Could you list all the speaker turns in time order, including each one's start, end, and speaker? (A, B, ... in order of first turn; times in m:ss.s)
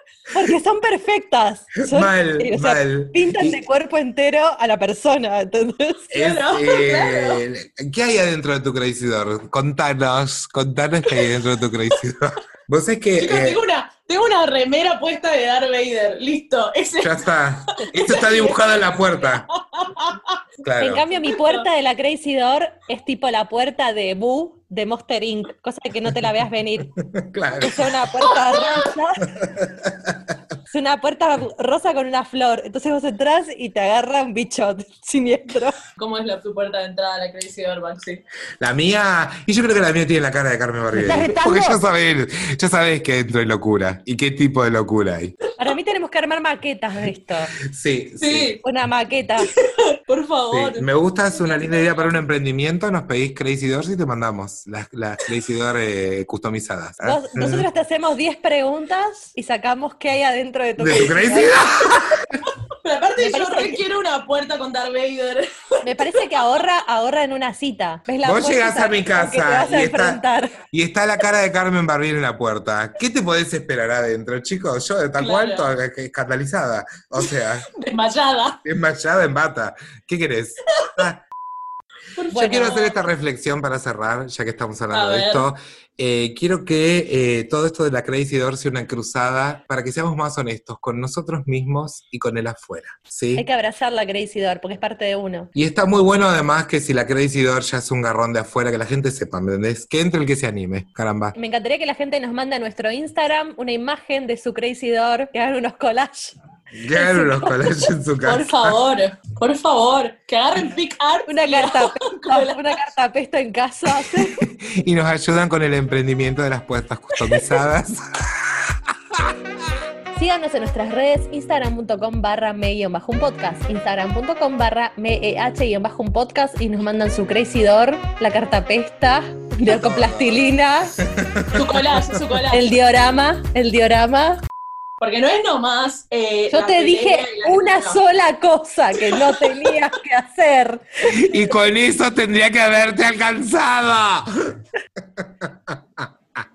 0:00.3-0:06.1 A
0:01.8-0:03.6 B
0:06.1-0:13.6 B
0:06.1-0:07.4 C
0:13.2-0:17.4 C
0:17.0-0:19.4 B
0:17.9-0:18.8 C
0:19.5-0:20.3 C
0:20.6-0:21.0 B
0:20.8-0:27.0 A
0:21.1-0:21.6 C
0:27.1-0:27.9 B
0:27.6-0:29.3 A
0:28.2-0:28.9 C
0:29.4-0:30.4 B
0:30.7-0:35.8 A
0:36.0-0:38.2 C
0:38.6-0:45.4 B
0:41.0-0:41.8 A
0:45.6-0:47.5 A
0:47.7-0:48.5 B
0:48.2-0:48.6 C
0:48.6-0:49.5 A
0:49.4-0:52.1 C
0:50.5-0:57.6 B
0:57.0-1:01.6 A
1:00.8-1:02.3 B
1:02.8-1:06.2 C
1:03.2-1:03.8 A
1:05.8-1:10.6 A
1:08.2-1:17.7 B
1:15.2-1:15.7 C
1:17.8-1:18.6 C
1:18.6-1:21.2 B
1:22.2-1:23.0 C
1:22.3-1:22.7 A
1:22.3-1:33.4 B
1:24.9-1:25.5 C
1:33.4-1:35.5 A
1:35.5-1:41.3 B
1:41.3-1:46.4 A
1:46.8-1:48.8 B
1:46.9-1:47.6 A
1:48.2-1:52.8 C
1:51.3-1:54.4 A
1:54.1-1:58.5 B
2:00.1-2:10.9 A
2:09.6-2:10.4 B
2:11.0-2:11.8 B
2:11.5-2:12.7 C
2:12.5-2:14.4 A
2:15.0-2:18.0 C
2:16.5-2:20.8 A
2:19.0-2:19.5 C
2:21.0-2:24.3 B
2:25.2-2:25.5 B